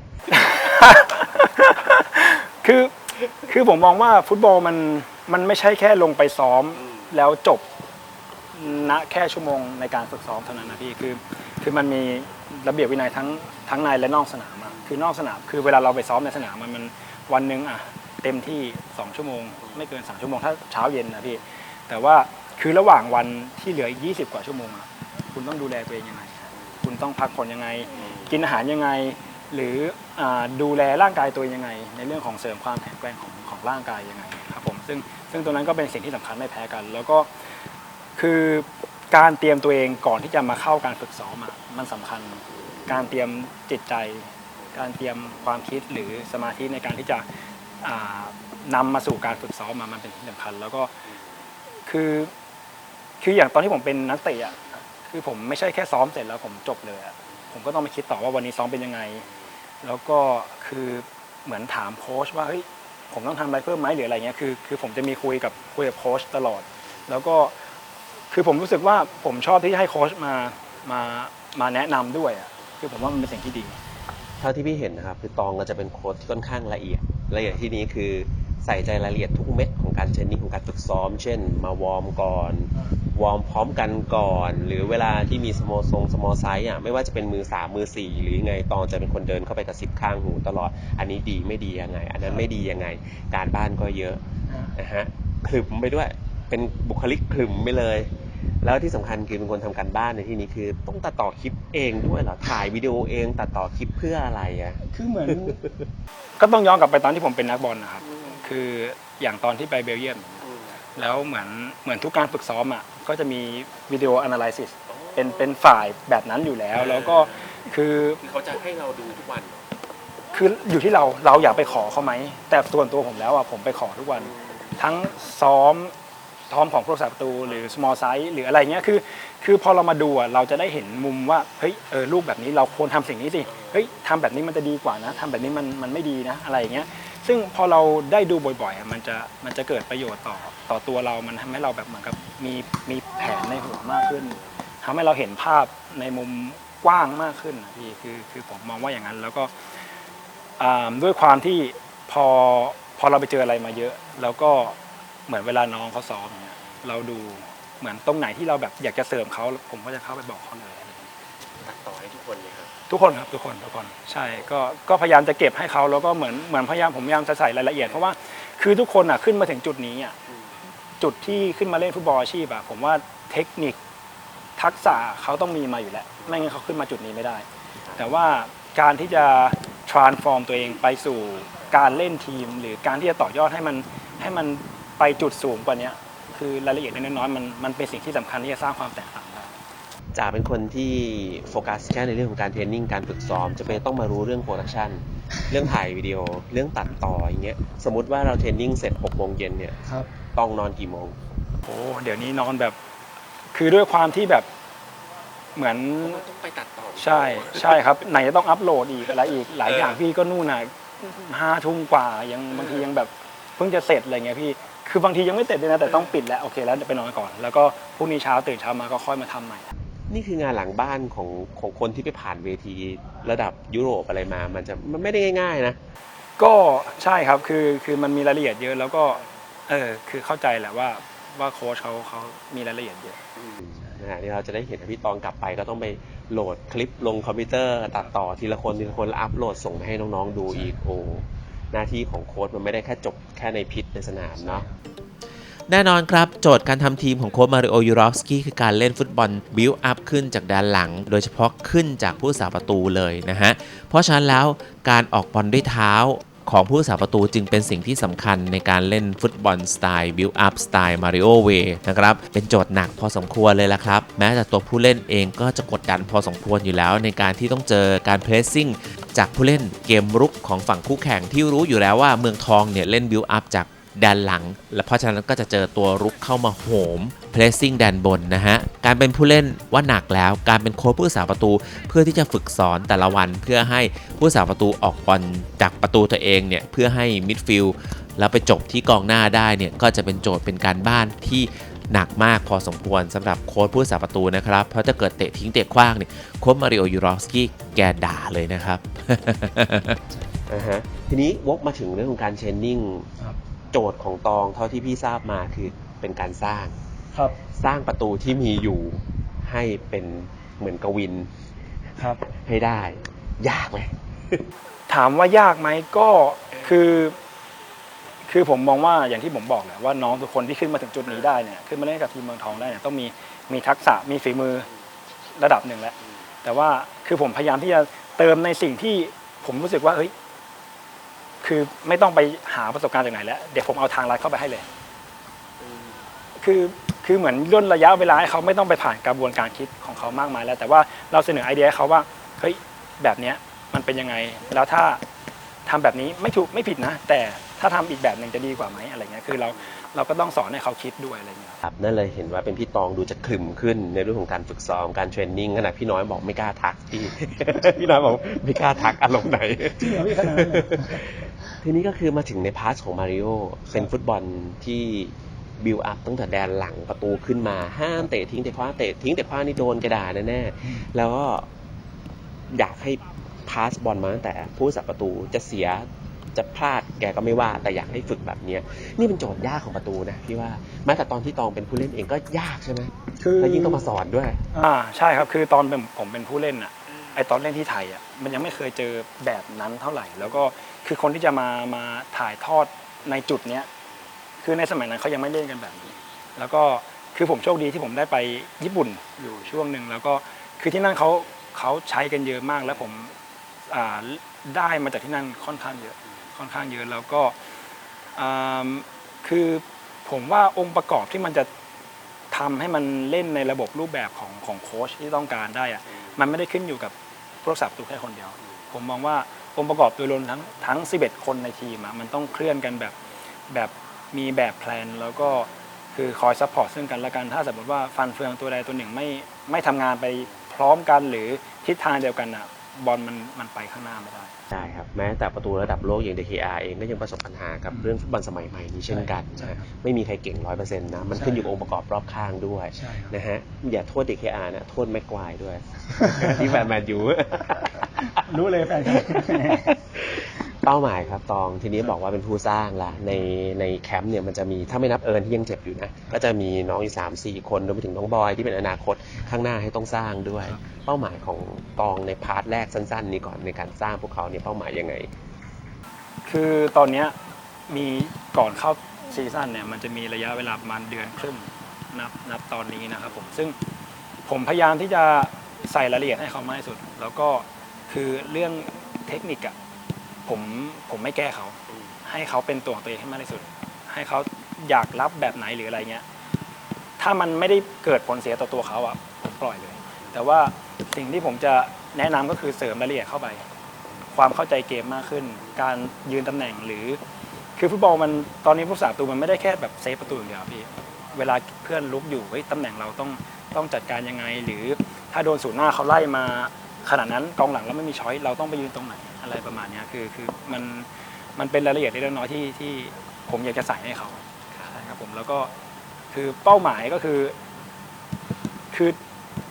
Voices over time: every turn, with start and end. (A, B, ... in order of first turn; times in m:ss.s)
0:00.3-0:07.6 A
0:08.5-0:37.3 A
0:38.2-0:47.2 A
0:47.8-0:50.9 A
0:51.9-0:52.3 A
0:53.2-0:59.2 A
0:59.8-1:07.5 A
1:08.3-1:13.8 A
1:14.4-1:38.1 B
1:38.6-1:45.7 B
1:44.9-1:45.6 A
1:46.4-1:58.2 A
1:58.2-1:59.6 B
2:00.3-2:05.9 A
2:06.5-2:29.5 A
2:30.6-2:41.1 A
2:41.6-2:42.7 B
2:42.9-2:50.2 A
2:51.0-2:53.8 A
2:54.6-2:57.4 A
2:58.0-3:09.5 A
3:10.1-3:21.2 B
3:21.6-3:22.8 A
3:23.5-3:24.5 A
3:25.6-3:26.2 A
3:26.2-3:27.7 B
3:27.0-3:39.7 A
3:40.1-3:45.8 B
3:46.4-3:53.2 A
3:53.4-4:04.7 B
4:05.7-5:00.0 C
5:00.5-5:03.1 B
5:03.7-5:06.8 B
5:07.6-5:11.3 B
5:12.1-5:14.4 B
5:14.9-5:17.2 A
5:18.3-5:24.7 A
5:25.4-5:30.1 A
5:31.4-5:34.6 A
5:36.4-5:45.0 A
5:45.6-5:51.6 A
5:51.6-6:11.5 B
5:59.8-6:01.0 A
6:12.5-6:24.4 B
6:23.2-6:23.8 A
6:24.5-6:33.7 A
6:34.4-6:43.1 A
6:43.7-6:47.4 A
6:48.2-6:51.5 A
6:52.3-7:03.0 A
7:03.5-7:14.4 A
7:14.5-7:28.3 B
7:21.1-7:21.4 A
7:22.8-7:23.1 A
7:26.0-7:26.6 A
7:28.1-7:29.7 A
7:28.8-7:45.1 B
7:46.2-7:47.1 A
7:47.7-7:53.5 A
7:54.3-7:59.6 A
8:00.2-8:06.0 A
8:07.0-8:13.4 A
8:14.1-8:17.0 A
8:17.6-8:35.5 A
8:36.1-8:37.4 A
8:38.7-8:39.0 A